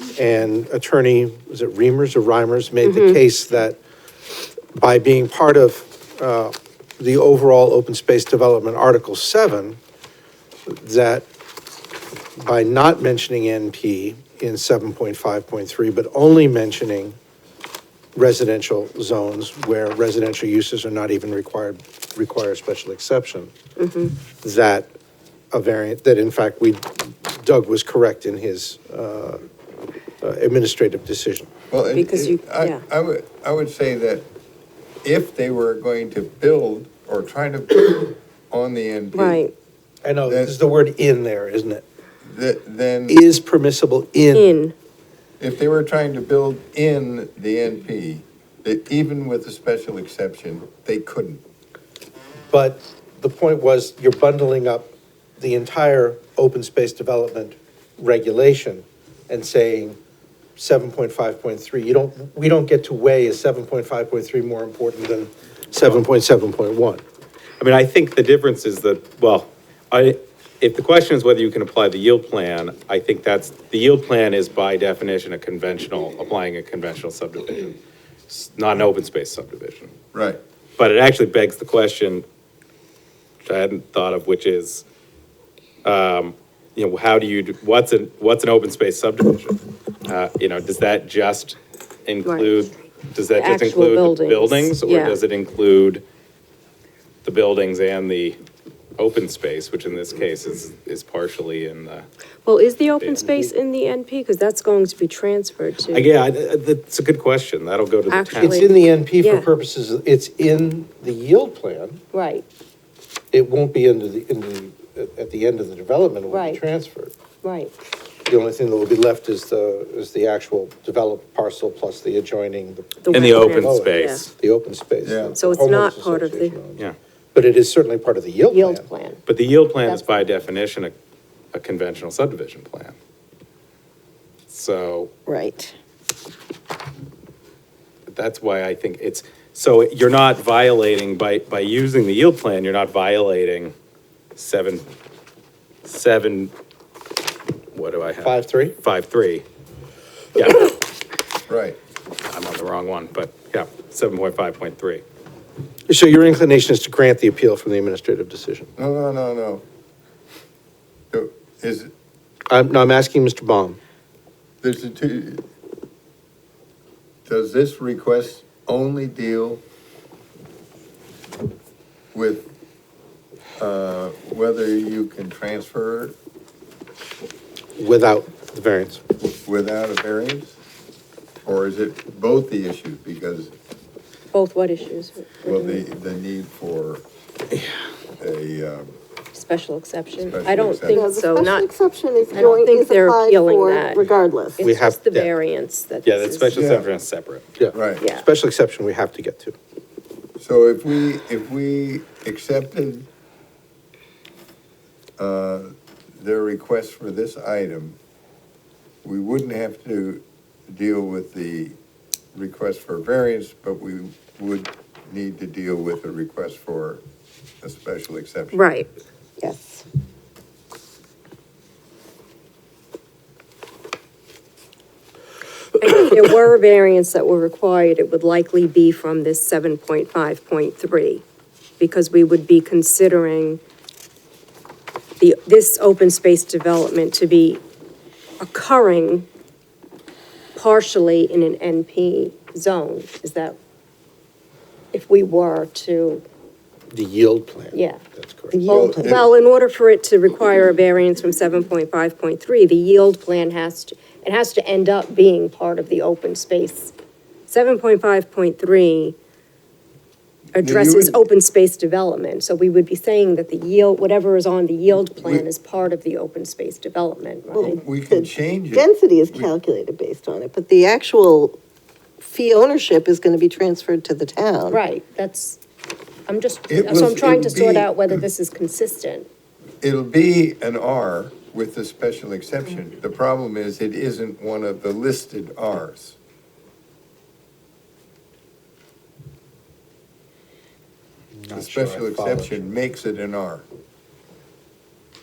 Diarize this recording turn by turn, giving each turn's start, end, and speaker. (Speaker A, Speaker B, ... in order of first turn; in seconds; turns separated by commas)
Speaker A: 0.1-3.8, Speaker B: 2.8-3.2, Speaker A: 4.7-9.8, Speaker A: 10.7-11.3, Speaker A: 12.4-17.2, Speaker A: 18.1-23.5, Speaker B: 23.8-24.2, Speaker A: 24.4-24.9, Speaker A: 25.5-29.4, Speaker A: 30.2-31.5, Speaker C: 31.7-34.3, Speaker B: 31.9-32.8, Speaker C: 35.0-39.4, Speaker B: 39.1-39.5, Speaker A: 40.0-41.8, Speaker C: 40.3-40.5, Speaker C: 42.2-43.2, Speaker A: 43.1-44.5, Speaker B: 44.3-44.7, Speaker C: 45.4-51.4, Speaker A: 52.5-60.0, Speaker A: 60.5-67.0, Speaker D: 67.6-77.8, Speaker D: 78.3-79.9, Speaker C: 80.1-80.4, Speaker D: 80.8-82.2, Speaker D: 83.4-84.8, Speaker D: 85.8-96.0, Speaker B: 92.2-92.5, Speaker B: 93.3-95.2, Speaker D: 97.2-98.4, Speaker D: 99.0-102.0, Speaker B: 102.4-106.1, Speaker D: 103.0-103.3, Speaker D: 105.9-108.7, Speaker B: 108.1-109.5, Speaker A: 108.4-112.0, Speaker B: 112.1-112.5, Speaker A: 113.3-117.1, Speaker B: 116.3-116.6, Speaker B: 117.4-117.7, Speaker A: 118.2-128.8, Speaker B: 123.0-124.2, Speaker D: 123.1-124.3, Speaker C: 125.0-125.4, Speaker B: 125.3-126.5, Speaker B: 128.4-129.2, Speaker D: 129.3-130.9, Speaker D: 131.5-132.9, Speaker D: 134.5-135.1, Speaker E: 135.3-135.7, Speaker D: 138.1-143.7, Speaker D: 144.3-144.8, Speaker D: 145.8-146.5, Speaker D: 147.7-149.4, Speaker A: 148.2-148.8, Speaker D: 150.3-150.7, Speaker C: 151.5-151.8, Speaker D: 152.3-155.0, Speaker A: 155.9-158.7, Speaker C: 158.8-159.6, Speaker C: 161.1-161.9, Speaker A: 162.5-163.8, Speaker C: 164.6-165.4, Speaker C: 167.2-169.6, Speaker C: 172.1-172.5, Speaker C: 173.6-176.2, Speaker A: 177.8-179.0, Speaker C: 179.4-180.6, Speaker C: 181.4-183.5, Speaker B: 184.3-185.8, Speaker C: 185.4-187.0, Speaker C: 188.2-188.9, Speaker B: 189.3-191.7, Speaker C: 190.2-191.0, Speaker E: 190.9-194.6, Speaker B: 192.3-196.6, Speaker A: 194.6-195.3, Speaker D: 196.0-197.5, Speaker C: 196.5-196.9, Speaker A: 197.6-199.6, Speaker C: 197.7-198.0, Speaker B: 198.0-198.3, Speaker C: 200.4-203.1, Speaker C: 205.2-208.0, Speaker C: 209.0-211.8, Speaker C: 212.3-217.0, Speaker C: 217.6-218.7, Speaker B: 218.5-218.9, Speaker E: 219.4-219.8, Speaker B: 225.8-231.2, Speaker B: 231.8-233.6, Speaker B: 235.2-237.6, Speaker B: 238.4-239.3, Speaker B: 240.5-243.6, Speaker B: 244.9-246.2, Speaker A: 246.9-248.6, Speaker B: 247.7-248.0, Speaker E: 248.5-249.2, Speaker B: 248.7-256.9, Speaker C: 248.7-249.3, Speaker B: 257.5-259.1, Speaker C: 260.6-261.2, Speaker B: 260.6-267.8, Speaker C: 265.1-265.4, Speaker E: 267.5-271.6, Speaker C: 267.6-269.5, Speaker E: 272.2-274.8, Speaker B: 274.7-275.6, Speaker B: 276.3-279.3, Speaker C: 276.7-278.2, Speaker C: 279.8-286.1, Speaker A: 291.4-292.8, Speaker C: 291.5-293.6